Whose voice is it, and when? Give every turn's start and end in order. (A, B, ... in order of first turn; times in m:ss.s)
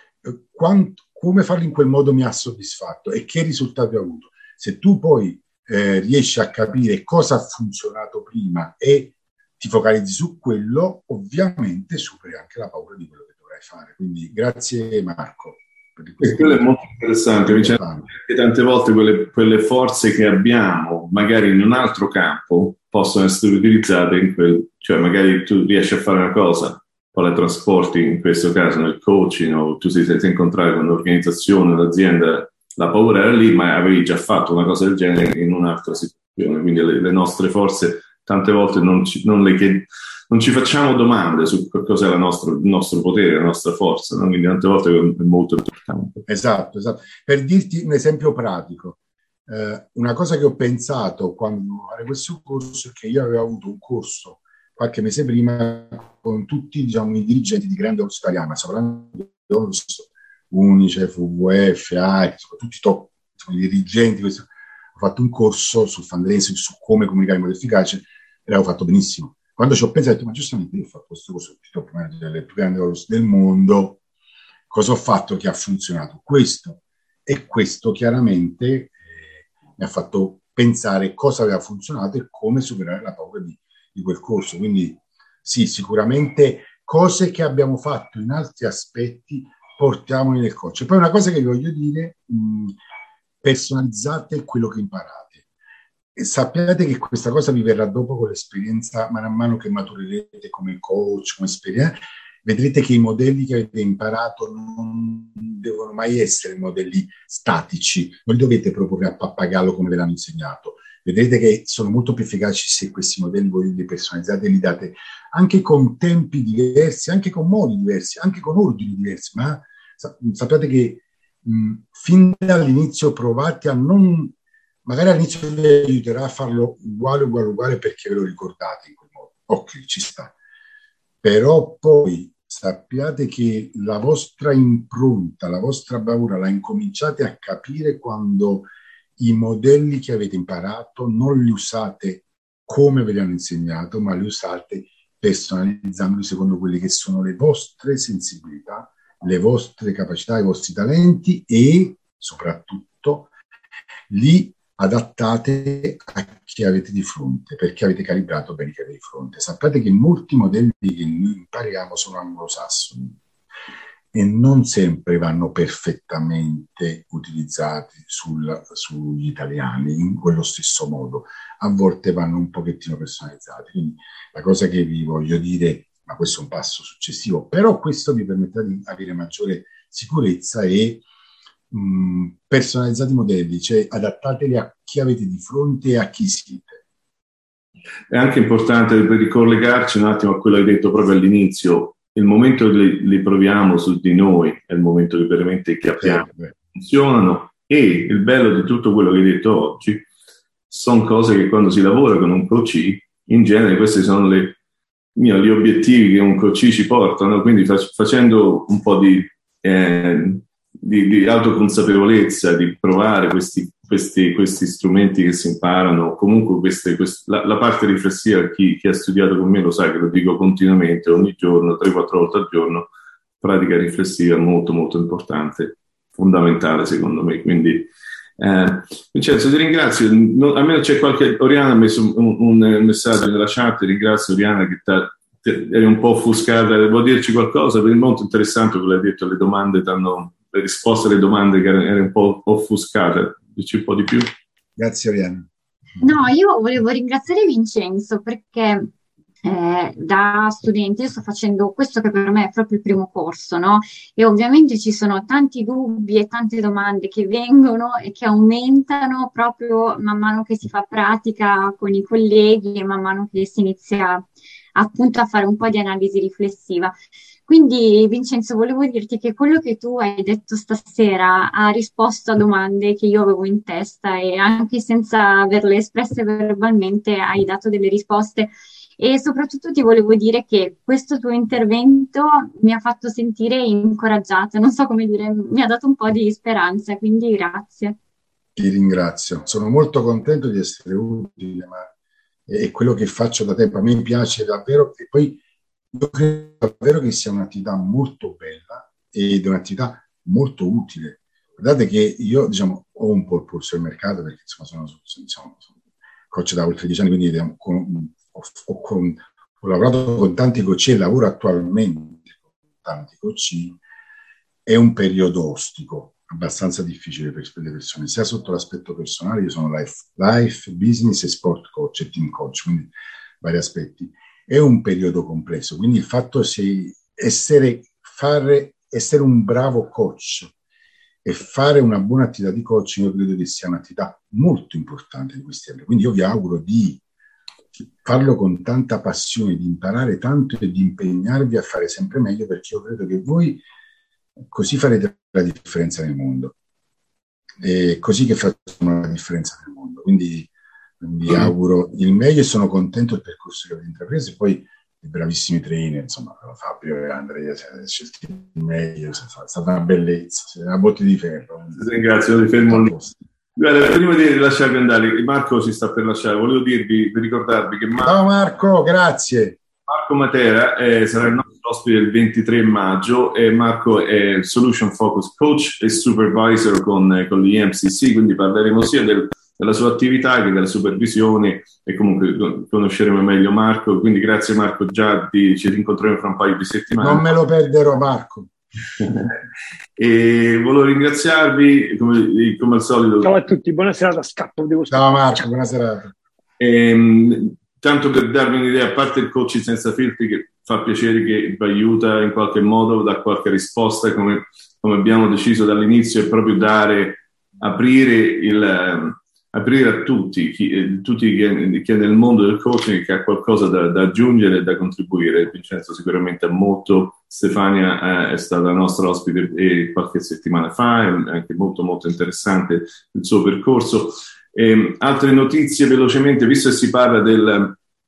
0:00.2-0:16.9 A
0:16.2-0:46.2 B
0:17.4-0:18.1 A
0:46.3-1:14.0 A
1:14.7-1:32.8 A
1:33.4-1:35.4 A
1:36.2-2:10.4 A
2:11.2-2:33.3 A
2:34.1-2:43.2 A
2:44.1-3:01.0 A
3:01.7-3:06.8 A
3:08.1-3:20.1 B
3:16.0-3:16.5 A
3:20.7-3:24.6 B
3:25.2-3:42.9 B
3:43.4-4:04.3 B
4:04.8-4:05.5 A
4:06.0-4:08.9 C
4:09.4-4:27.0 C
4:27.5-4:48.0 C
4:48.6-4:51.9 A
4:52.5-5:05.7 A
5:06.3-5:13.8 A
5:14.7-5:30.5 A
5:31.2-5:37.0 A
5:38.0-5:43.6 A
5:44.4-5:46.6 A
5:47.6-6:02.0 A
6:01.8-6:02.9 B
6:02.7-6:03.2 A
6:03.6-6:08.2 B
6:08.0-6:09.6 A
6:09.9-6:27.3 B
6:27.0-6:28.5 A
6:29.0-6:29.4 B
6:30.0-6:33.4 B
6:33.2-6:35.2 D
6:34.9-6:36.2 A
6:36.6-7:07.8 B